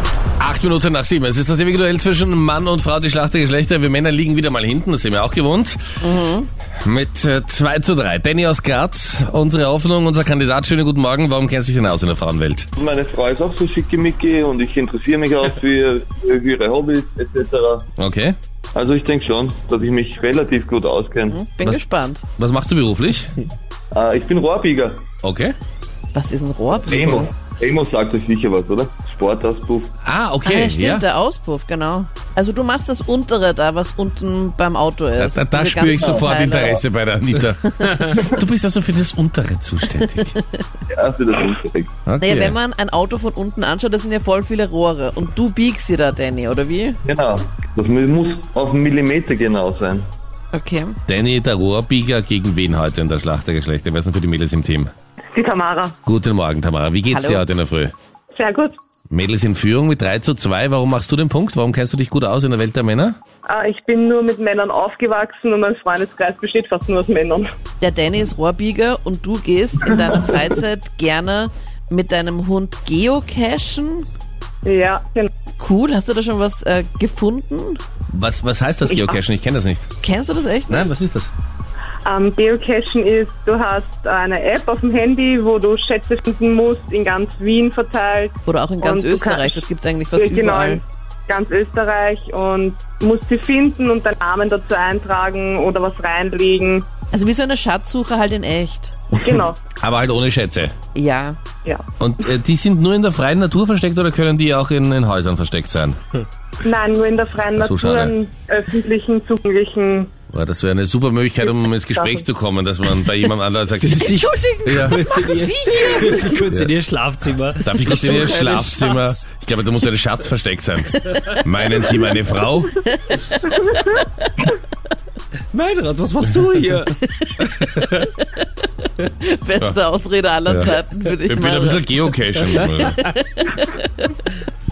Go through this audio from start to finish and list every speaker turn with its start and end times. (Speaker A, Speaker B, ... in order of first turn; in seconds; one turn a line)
Speaker A: 0.4-5.8
Speaker B: 6.0-6.5
Speaker A: 6.8-12.7
Speaker C: 12.8-17.9
Speaker A: 18.0-18.4
Speaker C: 18.7-21.4
Speaker B: 21.3-22.2
Speaker A: 22.4-23.3
Speaker C: 23.9-25.0
Speaker A: 25.2-25.6
Speaker B: 26.1-27.3
Speaker C: 26.8-29.9
Speaker A: 30.0-31.0
Speaker B: 30.4-36.8
Speaker A: 35.2-40.3
Speaker C: 36.0-36.6
Speaker B: 37.7-38.2
Speaker B: 40.0-40.6
Speaker C: 40.9-41.9
Speaker A: 42.1-42.5
Speaker B: 42.2-47.0
Speaker C: 47.0-50.0
Speaker B: 50.5-51.0
Speaker A: 51.0-54.9
Speaker D: 55.3-56.0
Speaker A: 56.0-57.9
Speaker B: 57.1-57.5
Speaker D: 58.3-58.8
Speaker A: 59.1-63.2
Speaker D: 63.5-67.5
Speaker B: 67.8-74.0
Speaker D: 74.6-75.3
Speaker B: 75.6-77.8
Speaker A: 78.1-79.9
Speaker D: 78.9-79.2
Speaker B: 80.0-80.9
Speaker A: 80.7-81.3
Speaker D: 82.0-96.8
Speaker B: 88.5-90.8
Speaker B: 97.1-98.9
Speaker D: 99.2-99.6
Speaker A: 99.8-100.7
Speaker B: 100.9-101.4
Speaker A: 102.0-106.0
Speaker D: 106.6-110.1
Speaker A: 107.5-108.1
Speaker A: 110.3-115.0
Speaker D: 111.9-112.2
Speaker E: 113.8-119.2
Speaker B: 113.9-116.4
Speaker A: 116.4-116.7
Speaker A: 117.6-122.8
Speaker B: 122.8-124.5
Speaker E: 125.5-126.9
Speaker B: 127.0-128.5
Speaker B: 129.0-131.9
Speaker A: 131.2-133.0
Speaker B: 132.6-134.3